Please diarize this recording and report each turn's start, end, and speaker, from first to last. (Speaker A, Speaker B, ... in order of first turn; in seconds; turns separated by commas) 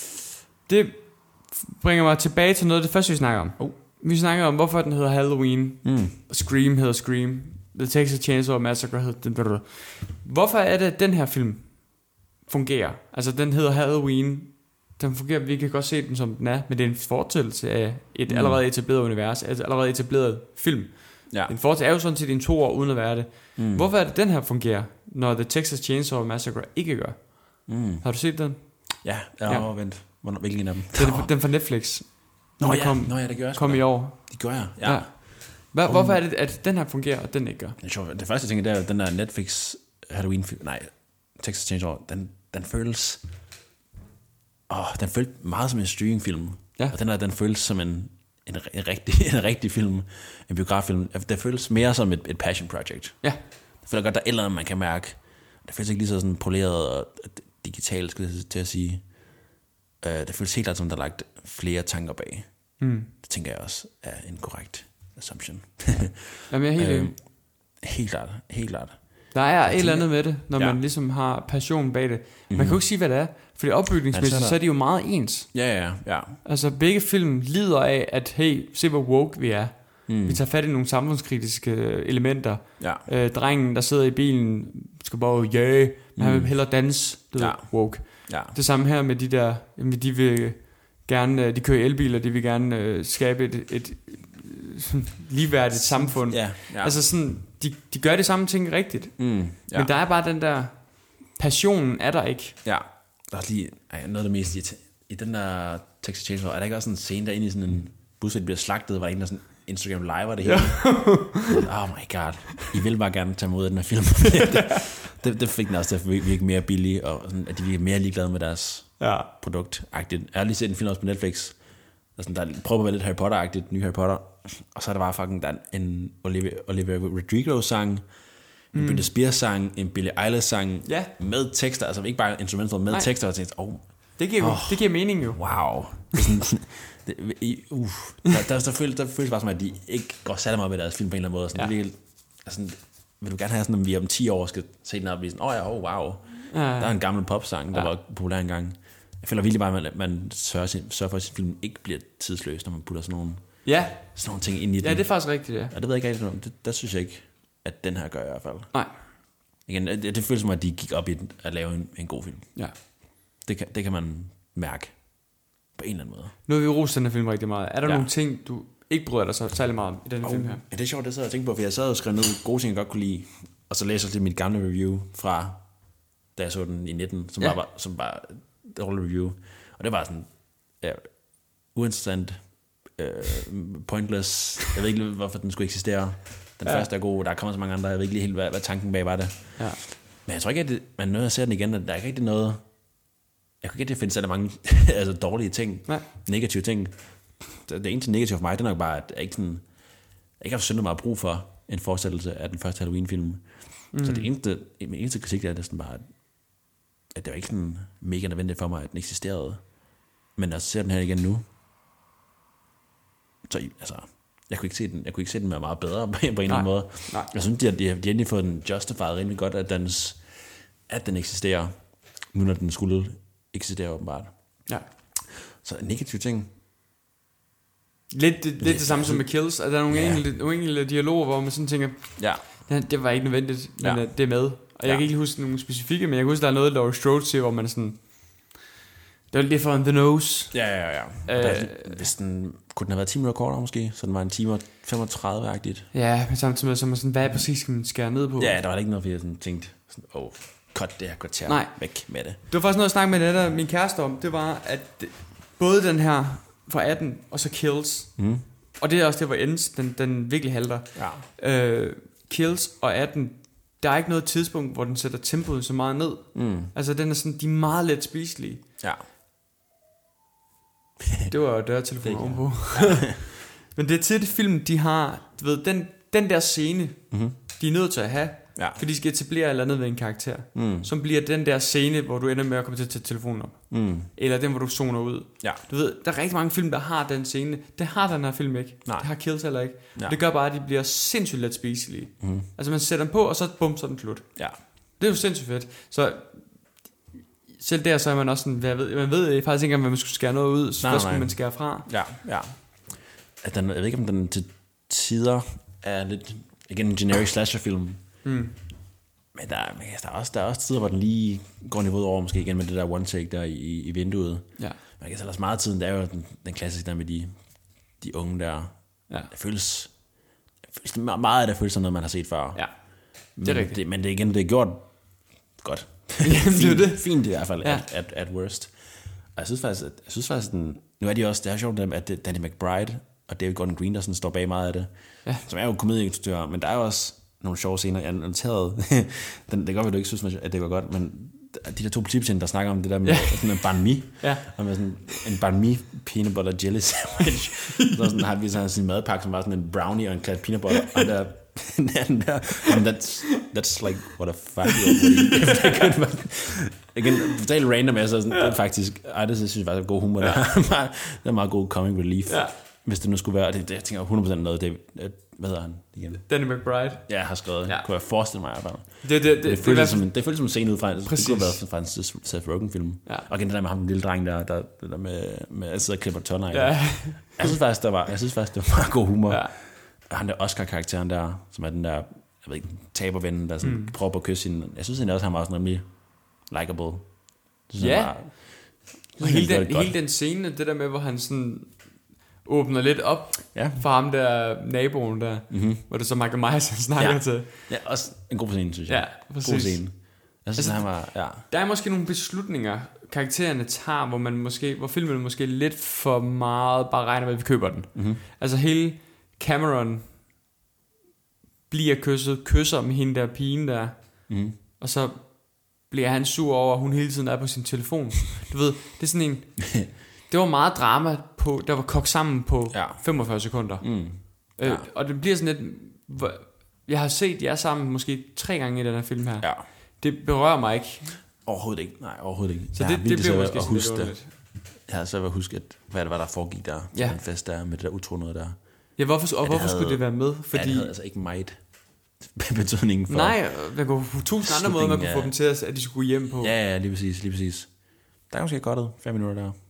Speaker A: 0.7-29.7, Speaker B: 5.8-6.2, Speaker B: 18.3-18.6, Speaker B: 23.6-23.9, Speaker B: 27.7-28.1, Speaker B: 29.0-31.3, Speaker A: 30.9-37.8, Speaker B: 32.6-36.2, Speaker B: 37.8-43.2, Speaker B: 44.7-53.3, Speaker B: 53.8-59.1, Speaker B: 60.0-70.8, Speaker A: 62.8-63.1, Speaker A: 66.5-67.1, Speaker A: 69.3-75.5, Speaker B: 72.5-72.8, Speaker B: 74.1-74.6, Speaker B: 75.5-76.4, Speaker A: 76.4-102.6, Speaker B: 80.1-80.4, Speaker B: 82.8-83.0, Speaker B: 86.2-88.5, Speaker B: 95.7-97.0, Speaker B: 99.2-99.9, Speaker B: 102.6-121.6, Speaker A: 110.4-111.6, Speaker A: 119.0-119.3, Speaker B: 122.1-158.7, Speaker A: 128.7-129.1, Speaker A: 130.8-131.1, Speaker A: 134.2-135.5, Speaker A: 146.5-147.2, Speaker A: 153.6-154.2, Speaker A: 154.8-155.7, Speaker B: 159.6-162.5, Speaker B: 163.4-166.3, Speaker A: 166.4-170.6, Speaker B: 167.8-168.1, Speaker B: 170.2-193.0, Speaker B: 193.6-206.2, Speaker A: 203.9-204.3, Speaker B: 207.1-209.8, Speaker B: 210.3-211.4, Speaker B: 213.4-226.5, Speaker A: 216.5-217.3, Speaker A: 228.1-238.6, Speaker B: 228.6-230.2, Speaker B: 232.2-232.5, Speaker B: 233.8-235.1, Speaker A: 239.3-242.1, Speaker B: 240.5-245.9, Speaker A: 245.9-248.6, Speaker B: 248.4-252.4, Speaker A: 251.4-268.6, Speaker B: 258.2-258.4, Speaker B: 260.9-261.2, Speaker B: 266.3-266.7, Speaker A: 271.3-296.8, Speaker B: 272.0-273.1, Speaker B: 277.1-277.4, Speaker B: 278.5-278.8, Speaker B: 280.5-280.9, Speaker B: 283.7-284.1, Speaker B: 288.8-289.3, Speaker B: 292.2-292.4, Speaker A: 297.5-301.9, Speaker B: 300.8-308.0, Speaker A: 308.2-308.5, Speaker B: 309.3-320.1, Speaker B: 320.6-366.3, Speaker A: 322.5-323.8, Speaker A: 326.2-327.8, Speaker A: 343.0-344.5, Speaker A: 347.7-348.2, Speaker A: 354.7-355.7, Speaker A: 362.3-362.5, Speaker A: 366.3-367.9, Speaker B: 367.0-390.0, Speaker A: 369.0-370.3, Speaker A: 371.1-371.6, Speaker A: 376.5-377.5, Speaker A: 379.3-379.5, Speaker A: 383.6-383.9, Speaker A: 387.8-397.7, Speaker B: 393.5-393.8, Speaker B: 395.5-395.8, Speaker B: 397.0-401.4, Speaker A: 398.9-410.2, Speaker B: 407.9-408.2, Speaker A: 411.7-431.2, Speaker B: 414.3-414.6, Speaker B: 422.7-424.9, Speaker B: 431.4-443.5, Speaker A: 432.7-434.3, Speaker A: 436.9-437.2, Speaker A: 438.9-440.9, Speaker A: 443.1-446.5, Speaker B: 444.4-445.3, Speaker B: 446.4-449.5